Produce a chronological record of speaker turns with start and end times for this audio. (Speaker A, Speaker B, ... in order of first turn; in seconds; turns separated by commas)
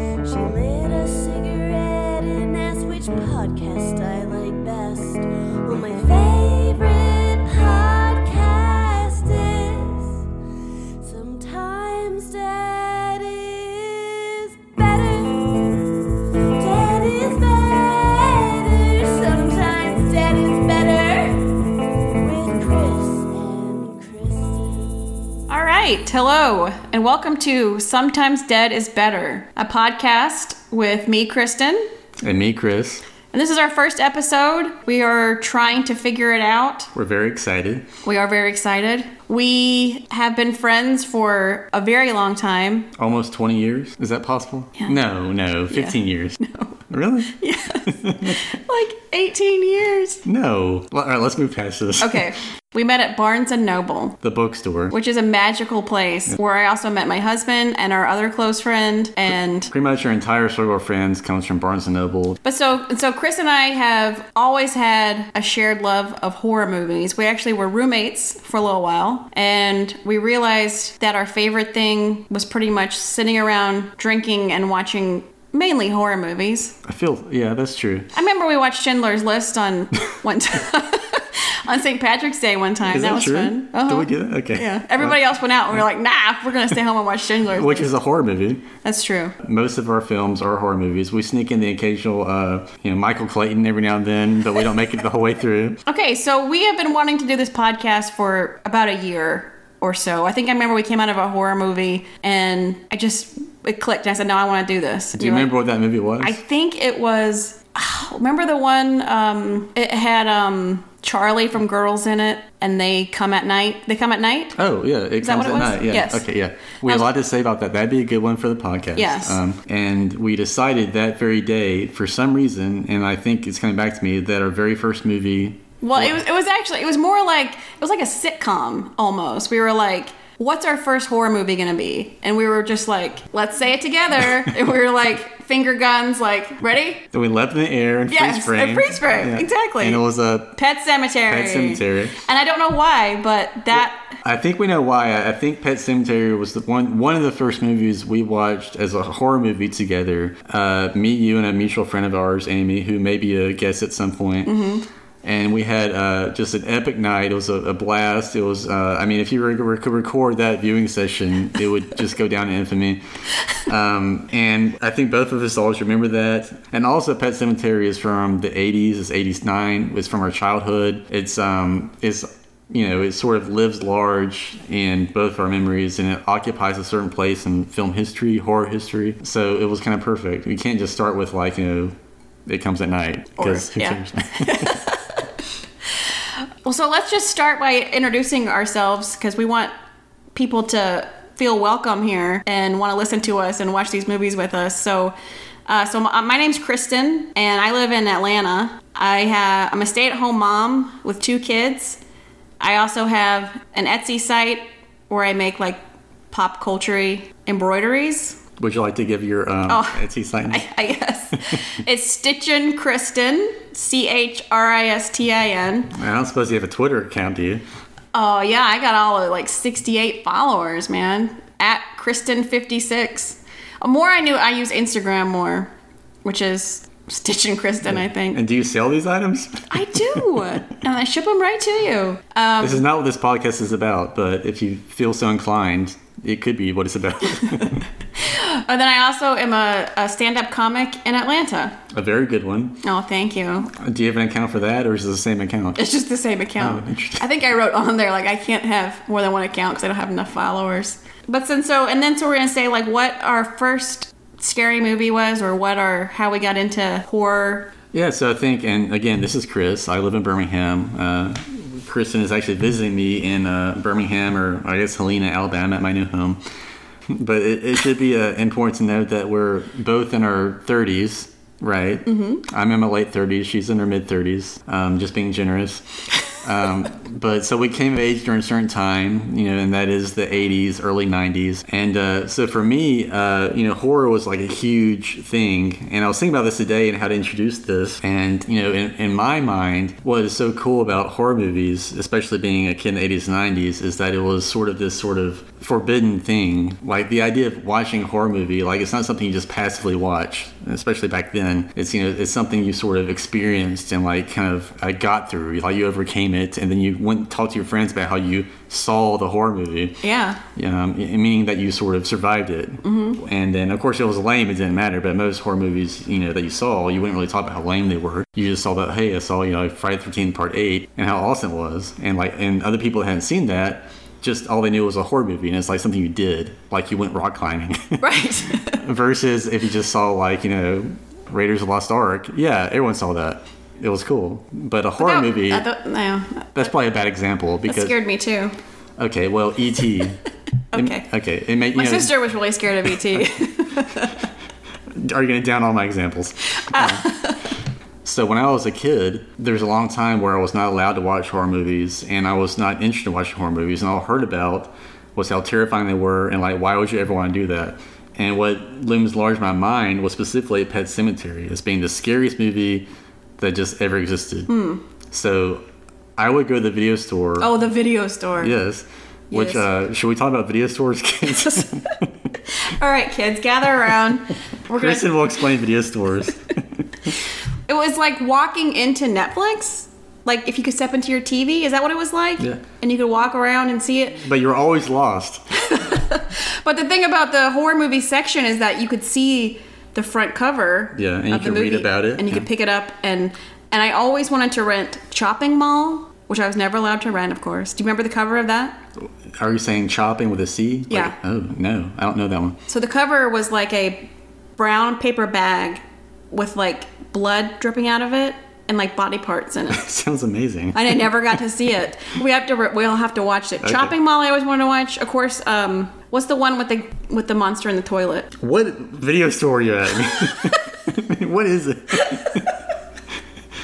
Speaker A: 0.2-10.2, Speaker A: 11.0-15.9, Speaker A: 16.5-25.3, Speaker B: 25.5-31.9, Speaker C: 32.2-33.0, Speaker B: 33.3-36.9, Speaker C: 37.0-37.9, Speaker B: 38.0-42.9, Speaker C: 43.0-48.4, Speaker B: 45.7-50.2, Speaker C: 50.2-52.3, Speaker B: 52.0-54.2, Speaker C: 54.2-54.9, Speaker B: 54.9-59.7, Speaker C: 59.7-62.4, Speaker B: 62.4-76.8, Speaker C: 76.8-78.1, Speaker B: 78.1-87.9, Speaker C: 82.9-85.2, Speaker C: 87.5-88.7, Speaker B: 88.8-89.3, Speaker C: 89.4-95.8, Speaker B: 95.9-105.5, Speaker C: 105.2-106.4, Speaker B: 106.2-114.6, Speaker C: 114.6-126.2, Speaker B: 115.2-116.2, Speaker B: 119.0-119.4, Speaker B: 125.8-137.1, Speaker C: 137.1-140.6, Speaker B: 138.1-144.2, Speaker C: 141.3-142.2, Speaker C: 144.2-154.5, Speaker B: 154.4-154.9, Speaker C: 155.2-163.0, Speaker C: 163.6-184.8, Speaker B: 183.4-185.0, Speaker B: 186.6-189.7, Speaker B: 190.3-195.1, Speaker B: 195.7-202.0, Speaker B: 202.6-208.4, Speaker C: 208.6-210.7, Speaker B: 209.7-215.9, Speaker C: 215.9-217.6, Speaker B: 218.1-225.7, Speaker B: 226.2-228.4, Speaker C: 227.9-230.6, Speaker B: 229.7-232.8, Speaker C: 232.6-237.8, Speaker B: 238.2-241.8, Speaker C: 241.9-242.8, Speaker B: 242.8-243.8, Speaker C: 243.8-245.8, Speaker B: 245.8-257.7, Speaker C: 246.6-247.2, Speaker C: 257.9-266.4, Speaker C: 267.1-310.0, Speaker B: 272.1-272.4, Speaker B: 310.0-310.4, Speaker C: 310.6-328.0, Speaker B: 312.8-313.2, Speaker B: 328.0-328.8, Speaker C: 328.6-335.7, Speaker B: 335.0-336.6, Speaker C: 336.6-338.0, Speaker B: 337.7-338.5, Speaker C: 339.0-340.2, Speaker B: 340.7-341.1, Speaker C: 340.7-342.2, Speaker B: 341.7-344.3, Speaker C: 344.9-347.1, Speaker B: 346.5-347.4, Speaker C: 348.0-362.9, Speaker C: 363.4-364.5, Speaker B: 364.5-364.8, Speaker C: 365.1-365.6, Speaker C: 366.2-367.5, Speaker B: 367.4-368.6, Speaker C: 368.4-372.1, Speaker B: 369.3-369.7, Speaker B: 371.4-371.8, Speaker B: 372.5-375.2, Speaker C: 374.7-376.6, Speaker B: 377.7-384.2, Speaker C: 384.2-385.4, Speaker B: 385.6-398.8, Speaker C: 390.9-392.5, Speaker C: 399.4-402.6, Speaker B: 402.7-409.9, Speaker C: 409.7-411.2, Speaker B: 410.7-418.3, Speaker C: 413.6-413.9, Speaker C: 418.4-422.5, Speaker B: 420.2-420.6, Speaker B: 422.0-422.5